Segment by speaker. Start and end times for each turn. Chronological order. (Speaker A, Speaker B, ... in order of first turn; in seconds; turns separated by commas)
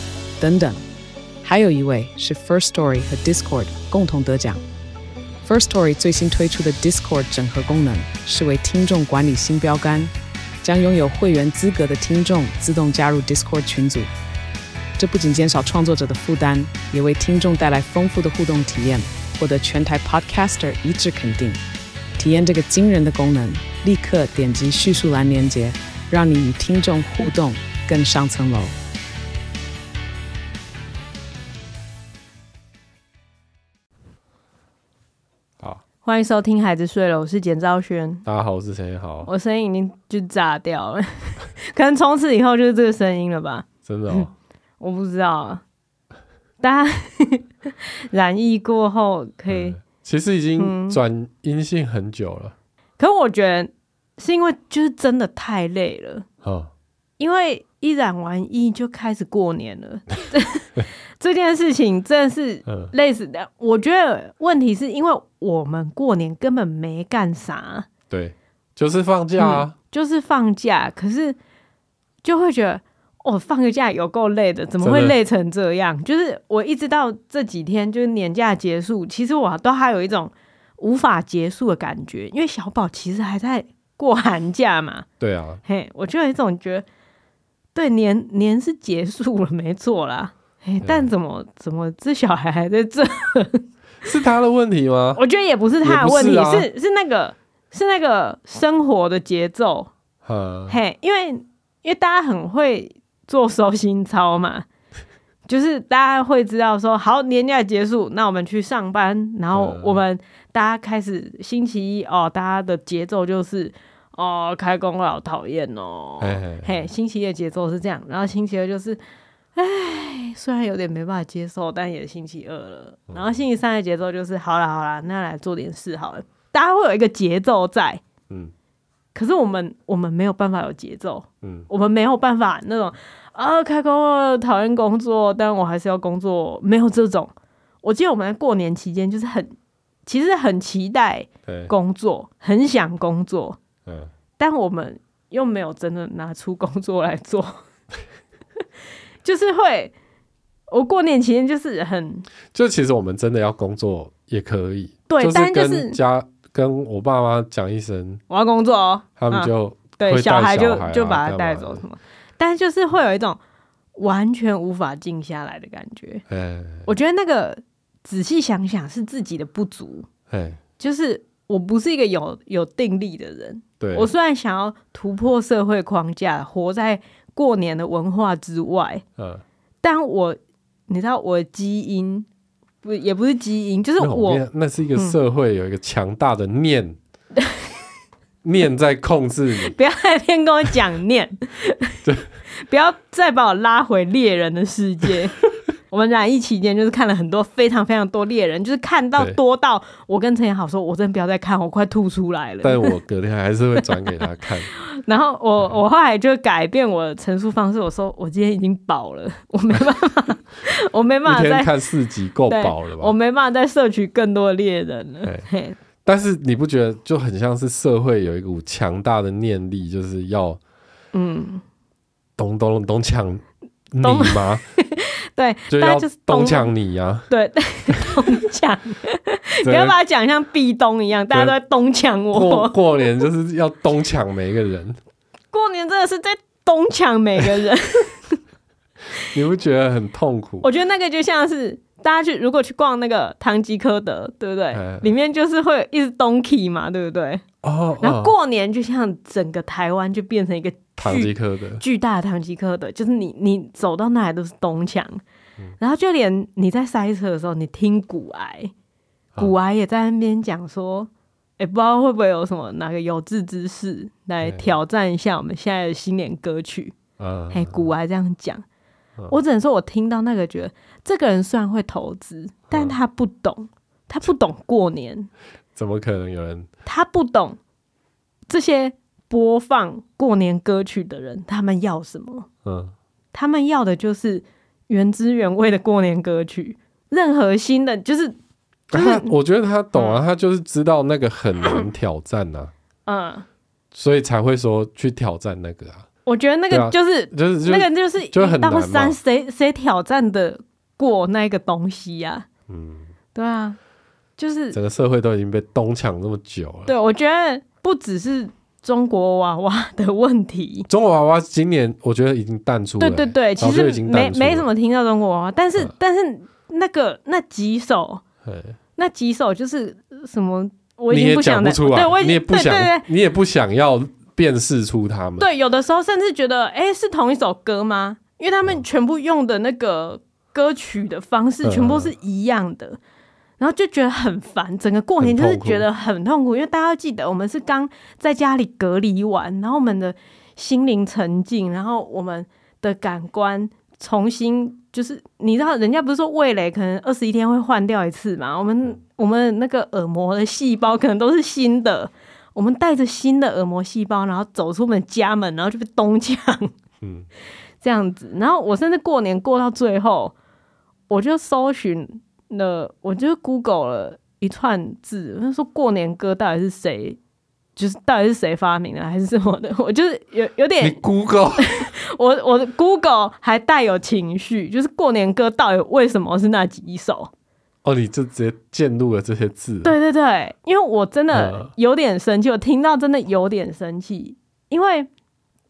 Speaker A: 0.4-0.8, Speaker A: 1.4-4.6, Speaker A: 5.4-10.1, Speaker A: 10.6-14.1, Speaker A: 15.0-21.6, Speaker A: 22.2-28.7, Speaker B: 36.0-38.2, Speaker C: 38.2-39.3, Speaker B: 39.2-44.3, Speaker C: 43.8-44.3, Speaker B: 44.8-45.6, Speaker B: 46.6-47.5, Speaker B: 48.1-49.8, Speaker C: 49.5-52.5, Speaker B: 50.6-51.0, Speaker B: 53.0-56.2, Speaker C: 56.4-56.7, Speaker B: 57.2-67.9, Speaker C: 62.6-62.9, Speaker C: 68.1-69.7, Speaker B: 69.4-71.4, Speaker B: 72.2-85.0, Speaker C: 74.8-75.1, Speaker C: 85.2-85.6, Speaker B: 85.7-86.8, Speaker B: 87.7-93.6, Speaker C: 90.8-91.1, Speaker C: 94.0-95.2, Speaker B: 95.1-99.9, Speaker C: 95.8-96.7, Speaker C: 100.2-100.8, Speaker B: 100.7-104.7, Speaker B: 105.5-119.0, Speaker C: 109.5-110.0, Speaker C: 116.2-116.9, Speaker B: 119.5-128.0, Speaker C: 123.1-123.4, Speaker B: 129.1-139.5, Speaker C: 131.4-131.7, Speaker B: 140.1-143.6, Speaker C: 141.4-141.7, Speaker C: 143.8-144.1, Speaker B: 144.4-147.6, Speaker B: 149.2-149.9, Speaker B: 150.7-152.3, Speaker C: 152.5-158.2, Speaker B: 155.1-156.0, Speaker B: 158.3-163.4, Speaker C: 159.2-161.8, Speaker B: 163.9-166.2, Speaker C: 166.3-166.9, Speaker B: 166.8-170.1, Speaker C: 170.3-170.6, Speaker B: 170.8-179.0, Speaker C: 173.8-174.1, Speaker C: 179.2-179.4, Speaker B: 179.8-180.4, Speaker B: 180.9-182.2, Speaker B: 182.8-184.4, Speaker C: 184.0-187.0, Speaker C: 188.4-189.7, Speaker B: 189.6-191.9, Speaker B: 192.5-202.9, Speaker C: 202.6-204.7, Speaker B: 204.8-211.7, Speaker C: 211.2-213.1, Speaker B: 212.5-215.8, Speaker C: 216.0-220.6, Speaker B: 221.1-221.6, Speaker C: 222.4-224.6, Speaker B: 224.0-226.7, Speaker C: 225.7-227.3, Speaker B: 227.3-232.8, Speaker C: 229.6-229.9, Speaker C: 232.3-235.0, Speaker B: 235.5-238.4, Speaker C: 239.2-240.7, Speaker B: 240.6-247.4, Speaker C: 244.7-245.1, Speaker C: 247.6-248.3, Speaker B: 248.0-255.2, Speaker C: 251.0-251.8, Speaker B: 255.8-258.7, Speaker B: 259.4-266.9, Speaker C: 264.4-264.7, Speaker C: 267.2-267.8, Speaker B: 267.5-268.6, Speaker B: 269.3-275.3, Speaker C: 275.8-276.7, Speaker B: 276.9-277.6, Speaker B: 278.5-282.5, Speaker C: 282.6-282.9, Speaker B: 283.3-288.3, Speaker C: 288.9-292.7, Speaker B: 288.9-289.3, Speaker B: 289.9-290.2, Speaker B: 293.1-293.4, Speaker C: 293.9-296.1, Speaker B: 296.2-302.5, Speaker C: 296.7-299.2, Speaker C: 302.7-303.1, Speaker B: 303.3-303.8, Speaker B: 304.4-304.8, Speaker C: 304.7-306.9, Speaker B: 306.9-310.9, Speaker C: 310.9-314.7, Speaker B: 313.0-318.2, Speaker C: 318.4-318.8, Speaker B: 319.0-323.1, Speaker C: 321.1-325.5, Speaker B: 325.4-333.0, Speaker C: 331.6-332.1, Speaker B: 333.6-356.7, Speaker C: 335.2-335.9, Speaker C: 357.0-357.3, Speaker B: 357.8-360.3, Speaker B: 361.1-367.2, Speaker B: 367.8-371.0, Speaker C: 370.8-371.9, Speaker B: 371.6-377.3, Speaker C: 377.8-379.9, Speaker B: 379.8-385.1, Speaker C: 381.3-381.7